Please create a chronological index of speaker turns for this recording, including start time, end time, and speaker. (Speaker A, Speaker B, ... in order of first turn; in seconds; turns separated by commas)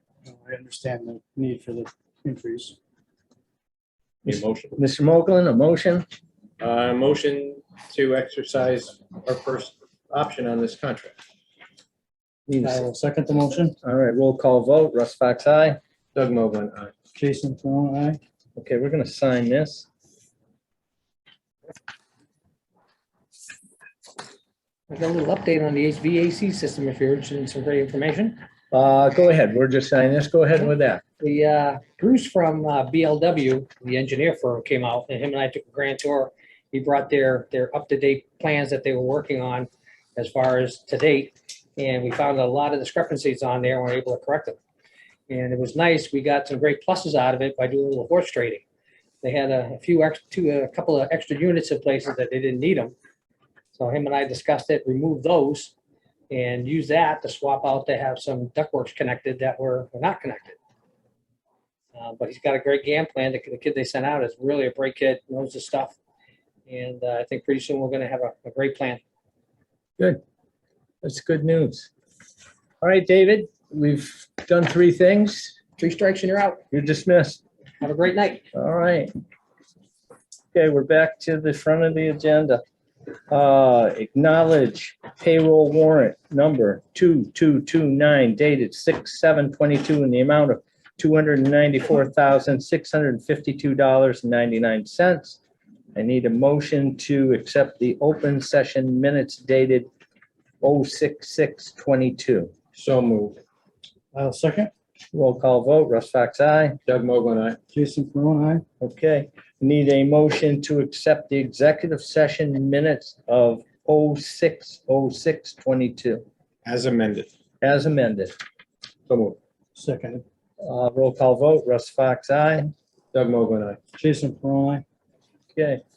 Speaker A: 0.3-2.8, Speaker B: 4.3-4.8, Speaker C: 4.3-6.1, Speaker B: 6.6-11.2, Speaker C: 12.5-12.8, Speaker A: 12.6-13.8, Speaker C: 13.8-15.8, Speaker B: 16.1-16.9, Speaker A: 17.1-18.2, Speaker C: 18.6-19.9, Speaker D: 24.9-28.4, Speaker C: 28.7-31.0, Speaker D: 31.2-44.6, Speaker D: 45.3-48.6, Speaker D: 49.2-53.0, Speaker D: 53.7-55.7, Speaker D: 56.3-60.6, Speaker D: 61.9-66.0, Speaker D: 66.7-69.0, Speaker C: 71.0-71.9, Speaker C: 72.8-75.6, Speaker D: 75.8-76.6, Speaker C: 76.7-77.4, Speaker D: 77.8-78.5, Speaker C: 78.5-79.1, Speaker C: 80.5-82.6, Speaker C: 83.3-95.4, Speaker C: 96.0-99.9, Speaker C: 100.6-102.5, Speaker B: 102.7-103.4, Speaker A: 104.1-104.7, Speaker C: 105.1-106.8, Speaker B: 106.9-107.6, Speaker A: 107.7-108.7, Speaker C: 108.8-116.2, Speaker B: 116.7-117.3, Speaker C: 117.6-118.3, Speaker B: 119.1-119.4, Speaker A: 119.8-120.2, Speaker C: 120.6-122.7, Speaker B: 123.1-123.8, Speaker A: 123.9-124.8, Speaker C: 125.5-125.8